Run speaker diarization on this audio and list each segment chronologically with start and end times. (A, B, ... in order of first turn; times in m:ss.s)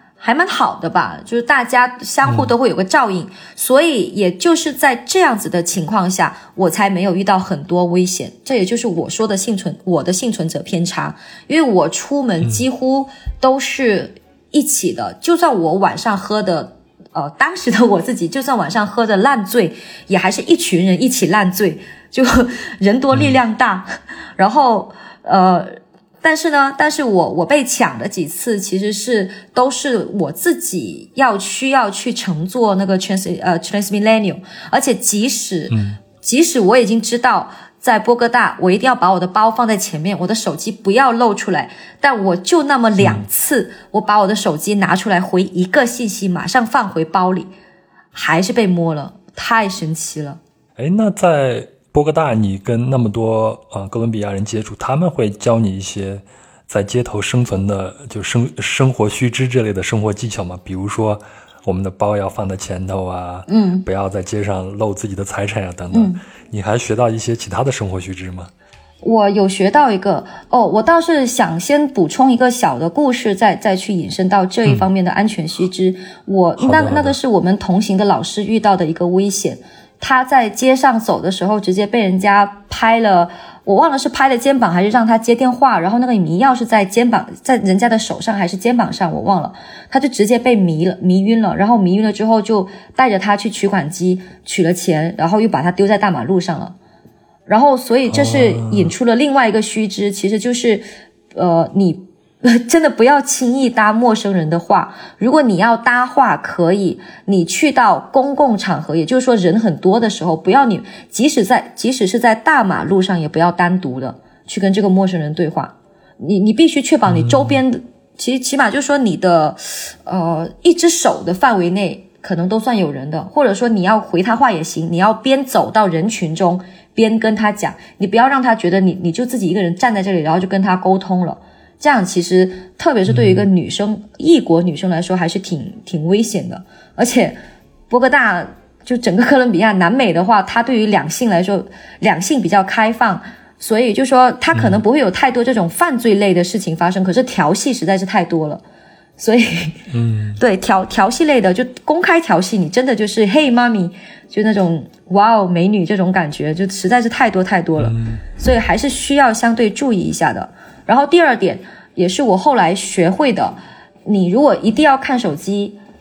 0:00.2-0:47.5 A
0:02.2-0:02.5 B
0:35.7-0:36.0 B
0:43.0-0:43.3 B
0:48.1-0:50.4 A
0:50.8-1:08.5 B
1:03.5-1:03.9 A
1:05.9-1:06.2 A
1:09.0-1:36.8 A
1:16.6-1:17.2 B
1:37.5-2:17.4 A
1:38.1-1:38.9 B
1:57.1-1:57.6 B
2:13.1-2:13.5 B
2:17.9-2:28.6 A
2:24.5-2:24.8 B
2:29.2-2:29.8 A
2:29.9-2:30.4 B
2:30.4-2:45.8 A
2:37.8-2:38.2 B